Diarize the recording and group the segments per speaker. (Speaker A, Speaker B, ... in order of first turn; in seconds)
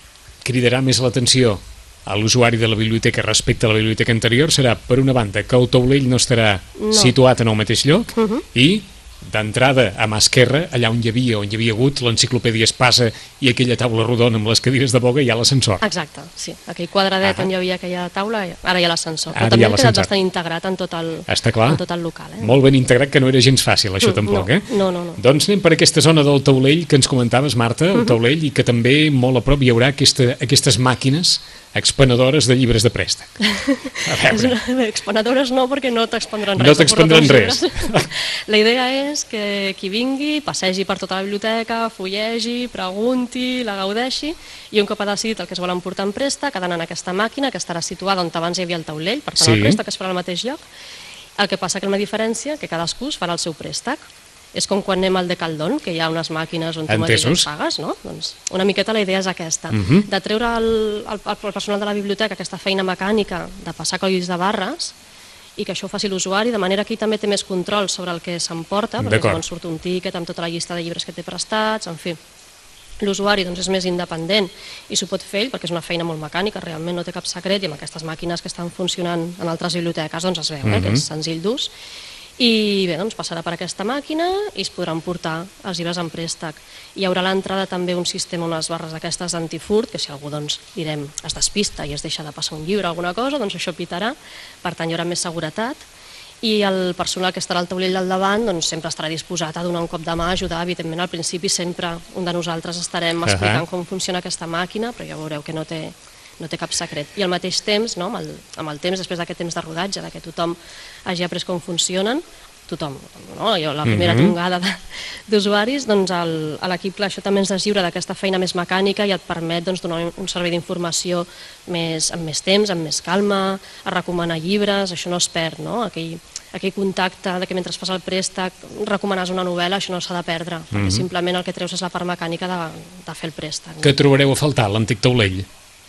Speaker A: 0.4-15.8, 17.2-17.5, 19.4-20.1, 21.3-21.8, 22.4-33.4, 34.0-34.5, 36.6-38.1, 49.4-49.8, 56.9-57.5, 59.7-60.1, 69.0-69.4, 80.7-81.0, 103.3-103.6, 113.8-114.3, 130.7-131.1, 133.8-135.5
Speaker B: 6.8-7.2, 8.2-8.4, 15.8-22.6, 24.0-25.2, 33.5-50.6, 51.4-54.0, 54.5-64.9, 65.6-72.2, 73.0-81.7, 82.4-95.8, 96.4-134.0